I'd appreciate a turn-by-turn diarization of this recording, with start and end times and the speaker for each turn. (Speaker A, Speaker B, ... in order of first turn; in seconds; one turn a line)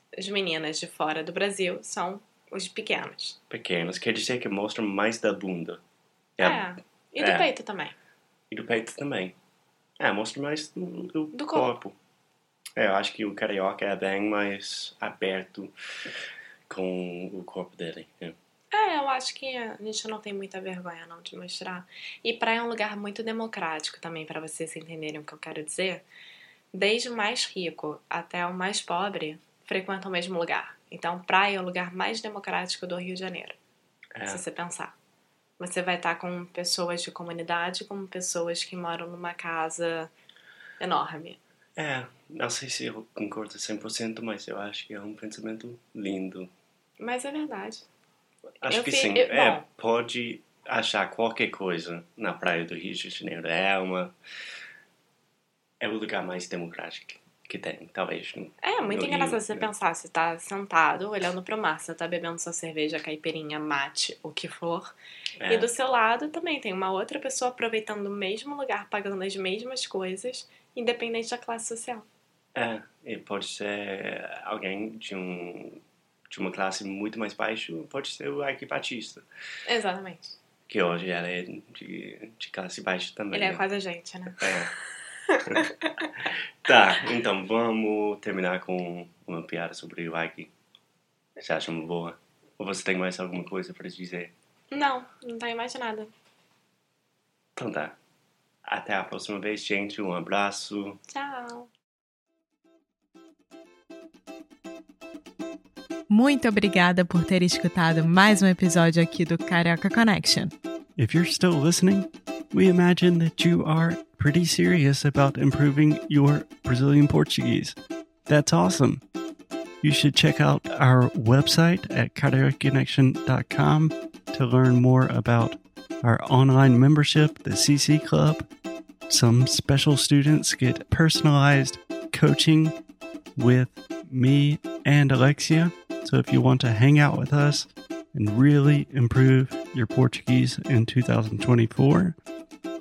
Speaker A: 0.2-3.4
Speaker B: 3.5-5.8
Speaker B: 6.4-7.5
Speaker A: 6.4-8.0
Speaker B: 8.5-9.4
Speaker B: 10.0-12.0
Speaker A: 11.3-11.8
Speaker B: 12.8-15.7
Speaker B: 16.7-18.4
Speaker A: 18.7-26.1
Speaker A: 26.7-33.6
Speaker B: 34.1-34.4
Speaker A: 34.2-35.0
Speaker A: 35.6-40.1
Speaker A: 40.8-41.4
Speaker B: 41.8-46.5
Speaker A: 47.0-47.9
Speaker B: 48.6-54.1
Speaker A: 48.7-49.6
Speaker B: 55.8-59.7
Speaker A: 58.6-65.0
Speaker B: 65.4-65.7
Speaker A: 65.5-72.1
Speaker B: 72.5-79.2
Speaker A: 79.7-80.4
Speaker B: 80.7-83.6
Speaker A: 83.3-84.7
Speaker B: 84.4-84.7
Speaker A: 85.3-86.1
Speaker B: 86.7-90.5
Speaker B: 91.4-94.3
Speaker A: 94.7-96.1
Speaker B: 97.6-98.0
Speaker B: 98.7-101.0
Speaker A: 101.1-101.7
Speaker C: 106.1-110.5
Speaker D: 111.0-117.7
Speaker B: 111.0-111.9
Speaker D: 118.3-119.0
Speaker D: 119.8-128.4
Speaker D: 129.1-132.7
Speaker D: 133.4-142.1